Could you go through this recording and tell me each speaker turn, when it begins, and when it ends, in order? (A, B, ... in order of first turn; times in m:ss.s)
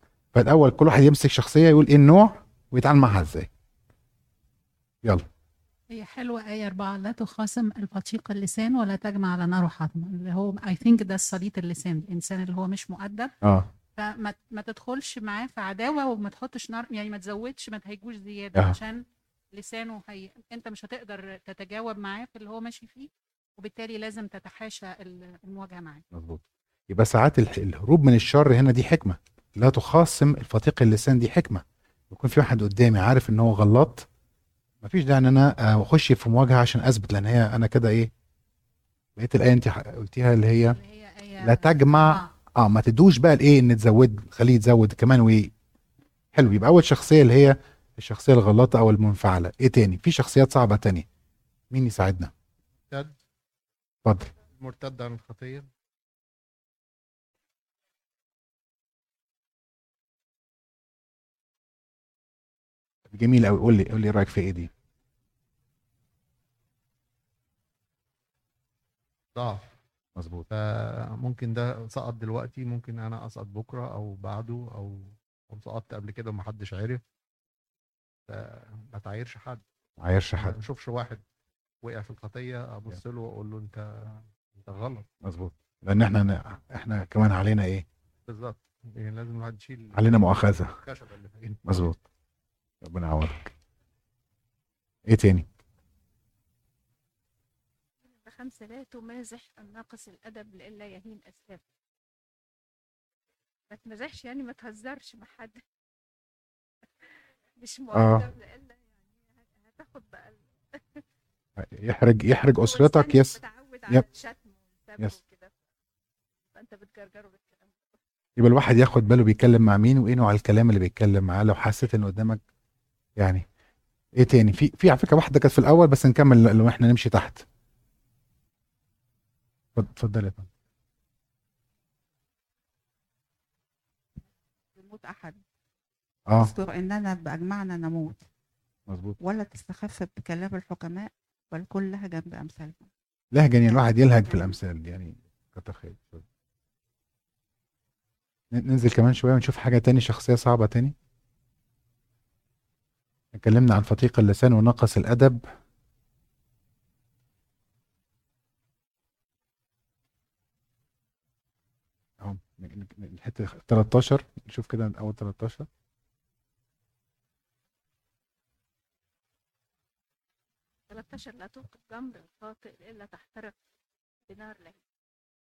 0:00.3-0:03.5 A
0:05.9-0:13.4 B
0:13.4-0:13.7 A
0:14.0-0:26.0 B
0:26.1-0:34.1 A
0:34.8-0:38.1 A
0:39.2-0:40.8 A
0:40.7-0:42.3 B
0:41.4-0:45.5 A
0:46.3-0:51.1 A
0:51.7-0:52.3 A
0:52.9-0:53.1 C
0:54.0-0:54.3 A
0:54.5-0:55.7 C
1:03.1-1:04.7 A
1:09.4-1:09.7 C
1:10.2-1:10.5 A
1:10.5-1:17.0 C
1:18.3-1:19.6 C
1:20.0-1:20.6 A
1:20.4-1:21.2 C
1:21.8-1:25.1 C
1:25.2-1:27.8 A
1:28.3-1:31.9 C
1:29.9-1:30.8 A
1:31.7-1:32.0 A
1:32.8-1:33.5 A
1:35.1-1:35.5 A
1:38.0-1:41.6 D
1:43.7-1:45.6 D
1:47.0-1:51.0 D
1:47.9-1:48.2 A
1:51.6-1:53.4 A
1:52.6-1:55.5 D
1:56.5-1:58.0 D
1:58.4-2:02.4 A
2:03.2-2:03.4 A
2:04.2-2:07.4 A
2:09.8-2:10.5 A
2:14.7-2:15.4 E
2:16.4-2:18.2 E
2:18.9-2:19.2 A
2:19.2-2:22.9 E
2:23.3-2:26.2 A
2:28.5-2:30.9 A
2:33.3-2:35.4 A
2:42.2-2:45.7 A
2:50.9-2:53.5 D
2:54.3-2:54.8 D